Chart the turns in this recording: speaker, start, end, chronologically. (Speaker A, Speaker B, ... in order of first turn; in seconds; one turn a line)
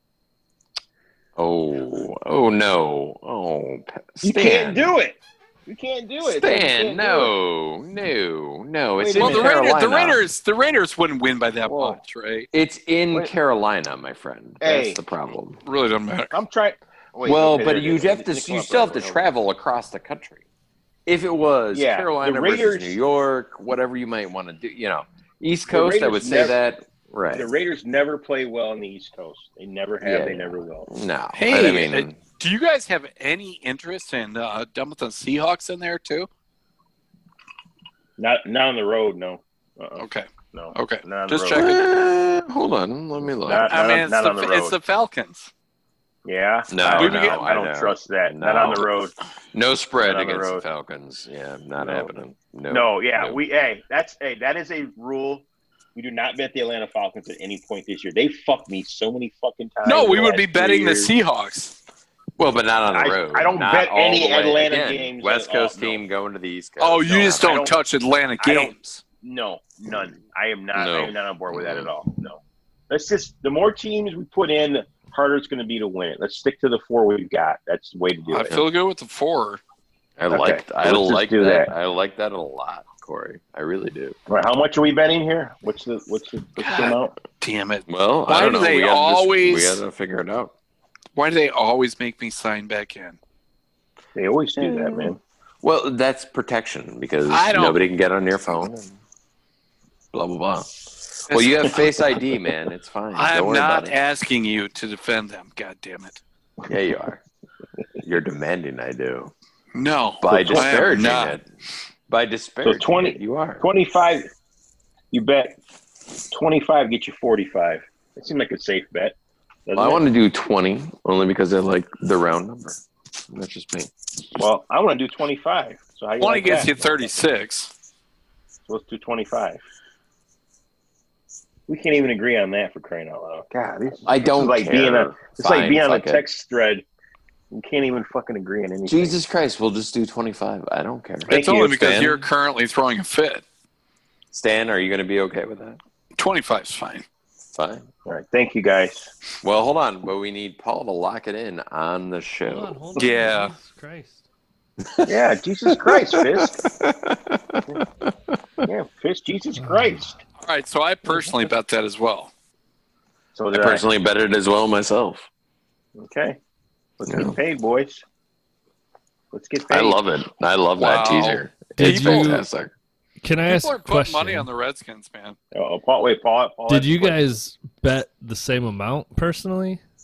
Speaker A: 1.4-4.9
Speaker B: 4.2-7.3
Speaker A: 6.2-10.2
Speaker B: 9.0-9.5
Speaker C: 9.1-12.5
Speaker B: 11.7-12.0
Speaker A: 12.5-15.6
Speaker B: 14.6-15.0
Speaker C: 15.6-16.3
Speaker B: 16.3-19.2
Speaker A: 17.2-20.4
Speaker A: 21.1-27.5
Speaker B: 21.7-23.0
Speaker B: 25.7-26.6
Speaker B: 27.3-30.9
Speaker A: 30.0-32.2
Speaker C: 31.3-36.3
Speaker B: 38.2-41.7
Speaker C: 40.0-41.8
Speaker A: 41.5-43.8
Speaker B: 43.4-44.8
Speaker C: 43.7-45.5
Speaker B: 46.2-49.1
Speaker A: 46.7-48.9
Speaker C: 46.9-47.5
Speaker A: 49.5-53.4
Speaker B: 50.0-50.6
Speaker B: 51.8-52.1
Speaker B: 52.7-61.1
Speaker C: 59.8-61.8
Speaker A: 62.4-67.5
Speaker B: 62.9-66.0
Speaker C: 66.8-69.0
Speaker B: 67.4-67.7
Speaker B: 68.4-78.6
Speaker A: 70.7-71.9
Speaker C: 78.3-79.6
Speaker A: 80.2-84.2
Speaker B: 80.3-81.7
Speaker B: 84.3-87.2
Speaker C: 86.6-89.8
Speaker A: 87.9-90.5
Speaker C: 91.1-93.2
Speaker B: 94.2-95.2
Speaker A: 94.6-99.0
Speaker C: 97.3-97.9
Speaker A: 100.1-104.0
Speaker C: 101.3-101.9
Speaker C: 103.1-106.2
Speaker A: 106.7-107.2
Speaker A: 108.0-109.3
Speaker C: 109.7-111.4
Speaker A: 110.2-111.4
Speaker B: 110.3-111.0
Speaker A: 112.1-113.7
Speaker B: 112.6-114.3
Speaker B: 115.1-115.6
Speaker B: 116.3-119.1
Speaker B: 119.7-120.0
Speaker A: 119.7-123.9
Speaker B: 124.4-127.2
Speaker C: 126.2-127.7
Speaker B: 128.7-129.6
Speaker B: 131.7-136.8
Speaker A: 134.0-136.2
Speaker B: 137.5-139.2
Speaker A: 138.8-142.3
Speaker B: 141.3-142.0
Speaker C: 141.3-143.4
Speaker A: 144.3-145.8
Speaker C: 146.2-147.0
Speaker A: 147.5-147.9
Speaker B: 148.1-149.1
Speaker A: 149.4-152.8
Speaker D: 152.4-154.2
Speaker C: 153.0-153.5
Speaker A: 154.8-155.1
Speaker B: 155.0-156.6
Speaker A: 155.7-158.4
Speaker B: 158.6-160.2
Speaker D: 159.6-160.2
Speaker C: 160.4-162.3
Speaker B: 161.1-161.3
Speaker B: 163.3-163.8
Speaker A: 163.5-165.3
Speaker B: 166.0-166.4
Speaker B: 167.0-168.0
Speaker A: 167.1-167.4
Speaker B: 169.3-170.0
Speaker A: 169.7-172.7
Speaker C: 170.8-172.4
Speaker D: 171.8-172.4
Speaker D: 173.2-174.5
Speaker C: 173.5-175.4
Speaker B: 175.5-177.2
Speaker D: 176.7-179.8